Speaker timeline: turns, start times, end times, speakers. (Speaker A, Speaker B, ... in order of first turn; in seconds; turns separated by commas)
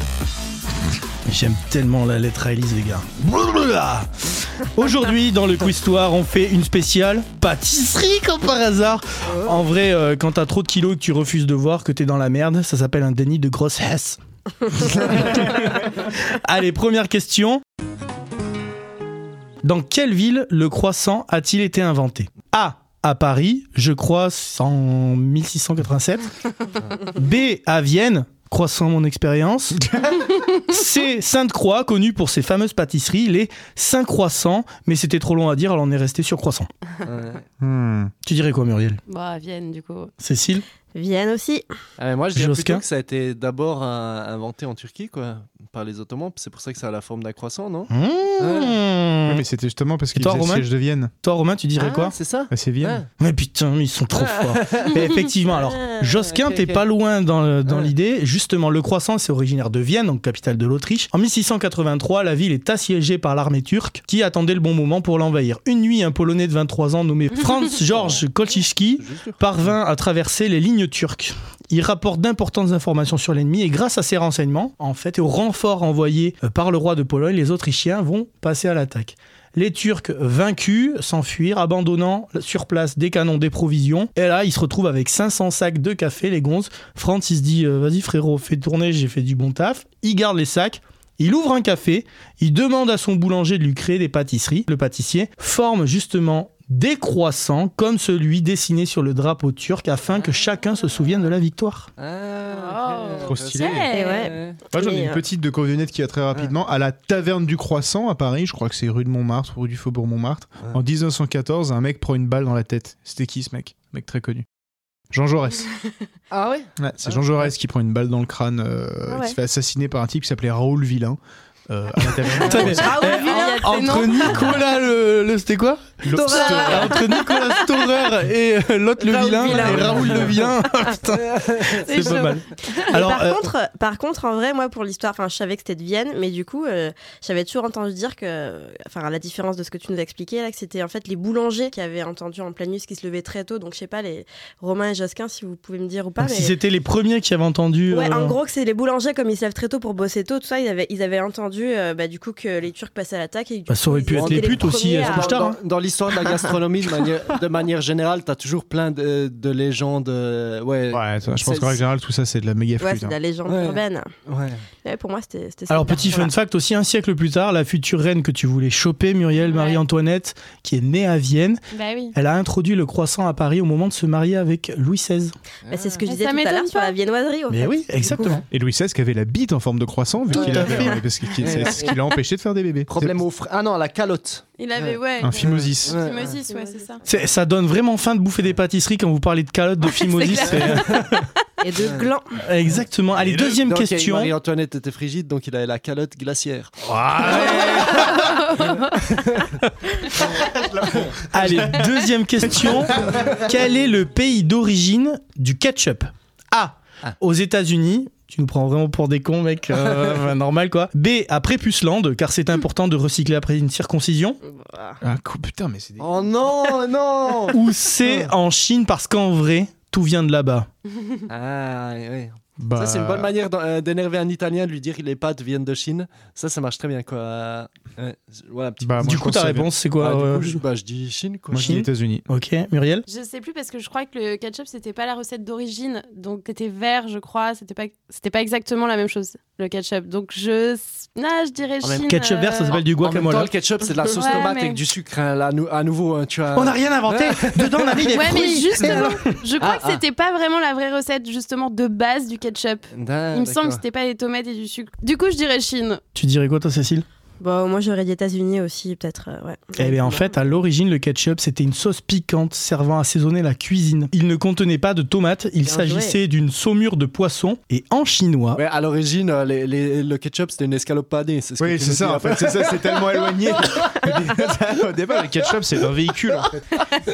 Speaker A: 1.2-17.6, Speaker A: 19.6-26.3, Speaker A: 26.9-29.9, Speaker B: 30.0-30.3, Speaker A: 30.6-36.7, Speaker C: 37.0-37.4, Speaker B: 37.6-38.1, Speaker A: 38.2-39.0, Speaker D: 39.1-40.1, Speaker A: 40.2-40.6, Speaker E: 40.9-41.6, Speaker C: 42.0-48.8, Speaker A: 42.3-42.8, Speaker A: 47.9-49.4, Speaker B: 49.2-51.1, Speaker A: 50.1-50.7, Speaker A: 51.2-52.1, Speaker C: 51.8-53.0, Speaker B: 52.5-53.0, Speaker A: 53.2-101.9, Speaker C: 54.1-55.0, Speaker E: 55.5-56.2, Speaker C: 56.2-56.8, Speaker C: 67.9-68.3, Speaker C: 69.0-69.4, Speaker C: 102.0-104.6, Speaker D: 102.5-104.3, Speaker B: 103.2-103.9, Speaker E: 103.9-105.2, Speaker B: 104.7-114.4, Speaker B: 115.1-115.7, Speaker C: 116.3-117.5, Speaker B: 116.8-123.0, Speaker D: 119.1-119.3, Speaker A: 122.3-133.5, Speaker E: 122.4-124.5, Speaker D: 122.8-124.3, Speaker B: 126.0-127.0, Speaker E: 126.0-127.8, Speaker E: 129.0-130.4, Speaker B: 129.5-130.3, Speaker C: 131.2-132.3, Speaker D: 131.7-132.5, Speaker E: 132.7-146.6, Speaker A: 146.2-148.3, Speaker E: 147.9-155.5, Speaker A: 153.7-155.6, Speaker C: 154.1-161.8, Speaker B: 160.9-163.1, Speaker E: 162.8-164.1, Speaker C: 163.5-164.6, Speaker E: 164.8-166.3, Speaker A: 165.7-171.6, Speaker D: 169.4-169.8, Speaker D: 171.7-172.1, Speaker A: 172.1-175.3, Speaker C: 175.7-176.0, Speaker E: 175.7-178.4, Speaker D: 176.1-177.0, Speaker A: 177.5-178.4, Speaker B: 178.5-183.2, Speaker C: 180.3-182.0, Speaker E: 180.4-181.9, Speaker C: 182.9-186.4, Speaker D: 184.6-187.0, Speaker B: 185.2-186.0, Speaker E: 186.2-186.9, Speaker A: 187.0-191.2, Speaker D: 189.8-191.4, Speaker E: 191.6-192.4, Speaker C: 191.8-192.1, Speaker A: 192.4-194.3, Speaker C: 193.2-197.9, Speaker A: 196.8-198.2, Speaker D: 197.6-199.1, Speaker C: 199.1-199.4, Speaker B: 200.3-202.0, Speaker A: 201.3-214.4, Speaker B: 202.9-203.4, Speaker E: 214.4-215.0, Speaker B: 215.0-216.1, Speaker C: 216.0-218.3, Speaker A: 217.5-220.7, Speaker C: 221.3-229.2, Speaker B: 222.6-223.3, Speaker B: 228.8-229.7, Speaker A: 229.0-230.6, Speaker C: 230.0-231.8, Speaker B: 231.5-232.2, Speaker A: 231.5-233.0, Speaker D: 233.1-242.7, Speaker C: 241.8-242.1, Speaker A: 242.1-243.5, Speaker C: 242.7-248.2, Speaker D: 244.1-244.8, Speaker A: 246.5-249.3, Speaker D: 248.1-256.0, Speaker C: 248.8-250.0, Speaker C: 252.9-253.8, Speaker A: 256.1-257.1, Speaker E: 257.4-260.3, Speaker A: 259.8-268.6, Speaker E: 265.6-266.2, Speaker C: 268.6-274.0, Speaker B: 271.6-276.9